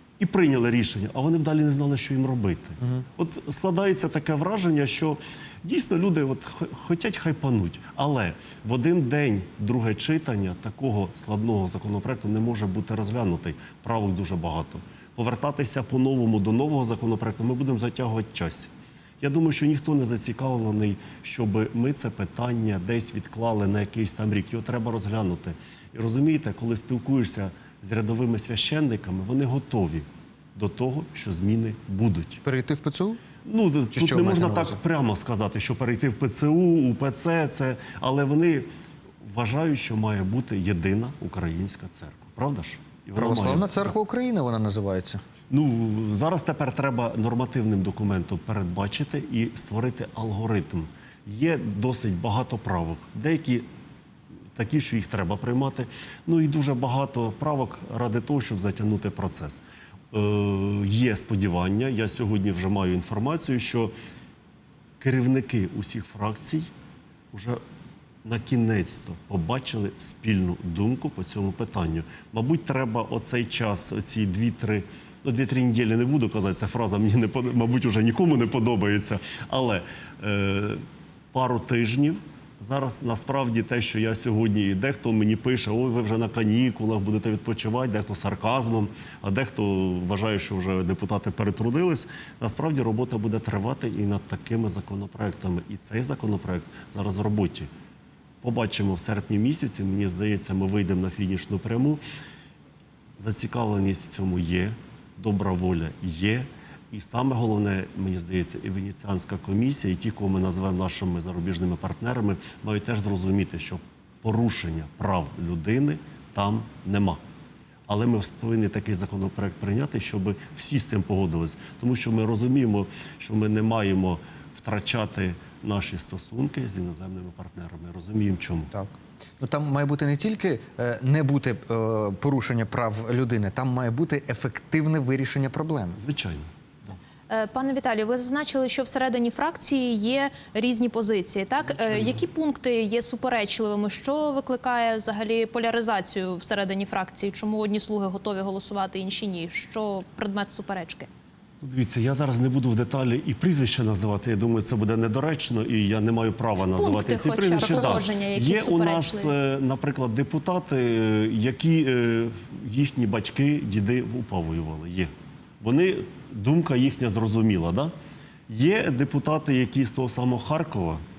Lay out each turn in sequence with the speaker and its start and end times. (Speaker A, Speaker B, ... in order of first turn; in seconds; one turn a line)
Speaker A: 0.2-32.4
Speaker B: 32.4-33.2
Speaker A: 33.4-38.7
Speaker B: 33.9-34.8
Speaker A: 39.2-43.9
Speaker B: 43.2-45.2
Speaker A: 45.5-53.7
Speaker A: 54.5-63.9
Speaker A: 65.0-66.7
Speaker A: 67.3-67.6
Speaker A: 68.2-97.7
Speaker A: 98.4-102.0
Speaker A: 103.2-117.2
Speaker A: 117.9-128.7
Speaker B: 128.7-136.0
Speaker A: 136.0-137.0
Speaker C: 137.3-151.1
Speaker A: 141.7-142.2
Speaker A: 151.6-167.9
Speaker C: 156.7-159.3
Speaker B: 157.6-158.0
Speaker A: 168.5-171.0